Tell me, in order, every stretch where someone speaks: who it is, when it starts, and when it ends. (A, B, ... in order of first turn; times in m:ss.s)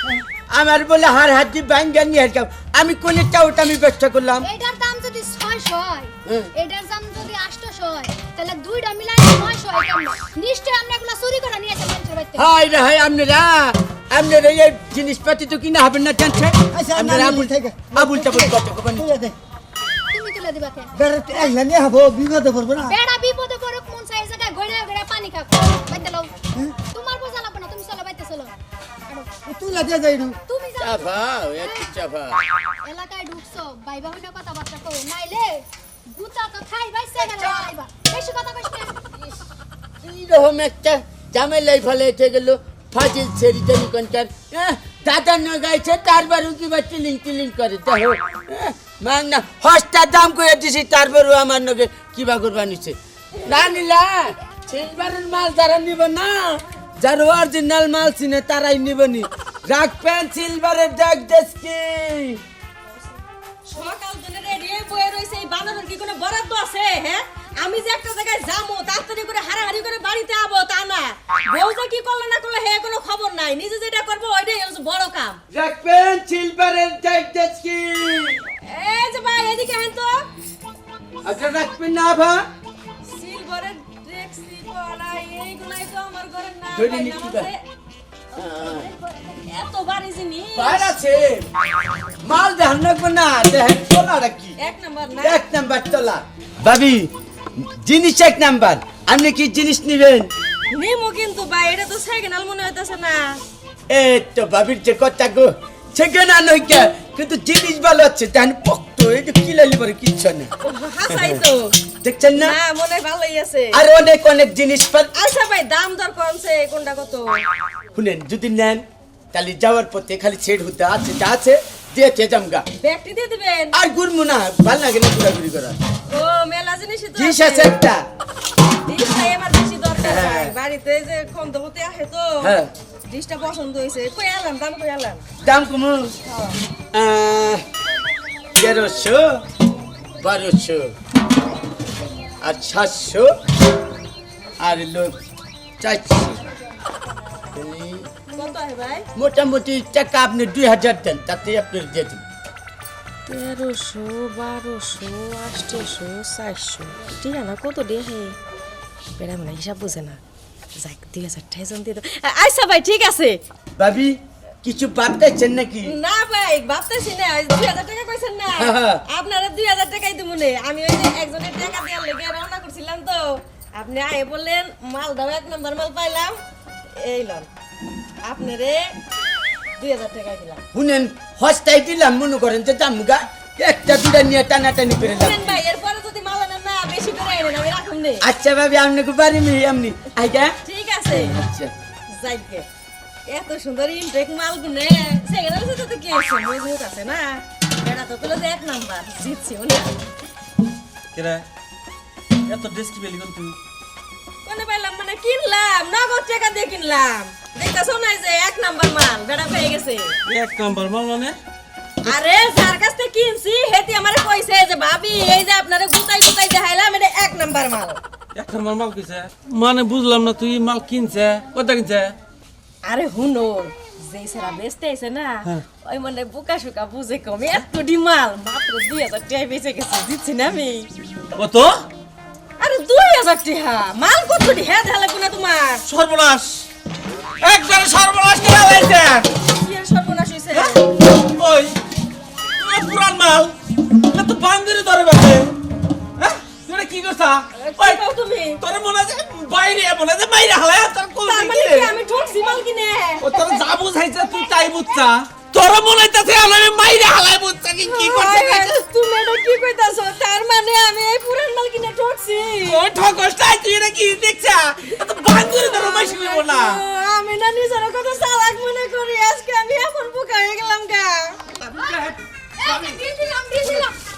0:00.5-0:04.4 A
0:04.4-0:12.5 B
0:12.4-0:19.1 A
0:16.7-0:19.3 C
0:20.1-0:20.9 B
0:20.9-0:23.0 C
0:22.8-0:26.3 B
0:26.9-0:28.5 B
0:29.4-0:30.4 C
0:30.4-0:31.9 B
0:30.8-0:32.4 A
0:32.8-0:39.1 B
0:40.0-1:02.4 A
0:53.4-0:53.8 D
1:03.7-1:15.4 D
1:15.5-1:18.4 A
1:18.6-1:20.3 D
1:21.2-1:22.4 A
1:23.0-1:27.6 D
1:26.7-1:27.5 A
1:28.3-1:28.8 A
1:28.6-1:30.9 D
1:30.5-1:31.5 A
1:32.2-1:34.6 A
1:34.6-1:35.4 D
1:35.2-1:37.1 A
1:37.6-1:40.3 A
1:40.7-1:43.4 D
1:43.9-1:50.5 A
1:50.6-1:51.8 D
1:51.1-1:51.4 A
1:52.0-1:52.5 A
1:52.3-1:53.8 D
1:53.7-1:55.1 A
1:55.2-1:57.4 D
1:57.9-2:02.6 A
2:02.8-2:03.7 D
2:03.7-2:05.8 A
2:06.1-2:07.7 D
2:07.2-2:08.0 A
2:08.8-2:15.2 D
2:10.0-2:10.5 A
2:12.4-2:12.7 A
2:15.4-2:16.2 A
2:16.3-2:16.6 D
2:16.9-2:17.6 A
2:18.6-2:19.4 A
2:20.2-2:20.9 A
2:22.4-2:23.3 A
2:24.6-2:25.2 A
2:25.8-2:26.4 A
2:27.5-2:28.1 A
2:28.3-2:29.0 D
2:29.2-2:32.2 A
2:33.3-2:38.4 D
2:39.2-2:40.2 D
2:40.8-2:43.4 D
2:43.8-2:45.9 A
2:45.8-2:56.3 D
2:48.6-2:49.0 A
2:57.0-2:57.5 D
2:58.2-2:59.0 D
2:59.8-3:00.6 D
3:00.7-3:05.5 A
3:05.0-3:08.2 D
3:08.2-3:10.5 A
3:10.6-3:11.4 D
3:11.1-3:11.7 A
3:12.1-3:12.7 D
3:13.3-3:20.0 D
3:21.1-3:21.5 E
3:22.5-3:23.6 E
3:24.4-3:30.2 D
3:30.2-3:31.4 E
3:32.0-3:38.0 D
3:38.3-3:42.2 E
3:42.8-3:50.9 D
3:51.3-3:51.8 E
3:52.6-3:55.8 D
3:55.8-3:56.7 E
3:57.4-3:59.3 E
3:59.4-4:00.8 D
4:00.5-4:01.8 E
4:02.6-4:03.5 E
4:04.1-4:05.5 E
4:06.2-4:08.0 E
4:07.5-4:08.6 D
4:08.6-4:11.9 E
4:11.2-4:13.3 D
4:13.2-4:18.8 E
4:17.8-4:22.8 D
4:22.6-4:26.8 E
4:25.6-4:31.4 D
4:31.6-4:33.1 A
4:31.8-4:32.0 B
4:32.6-4:34.0 B
4:33.6-4:33.9 A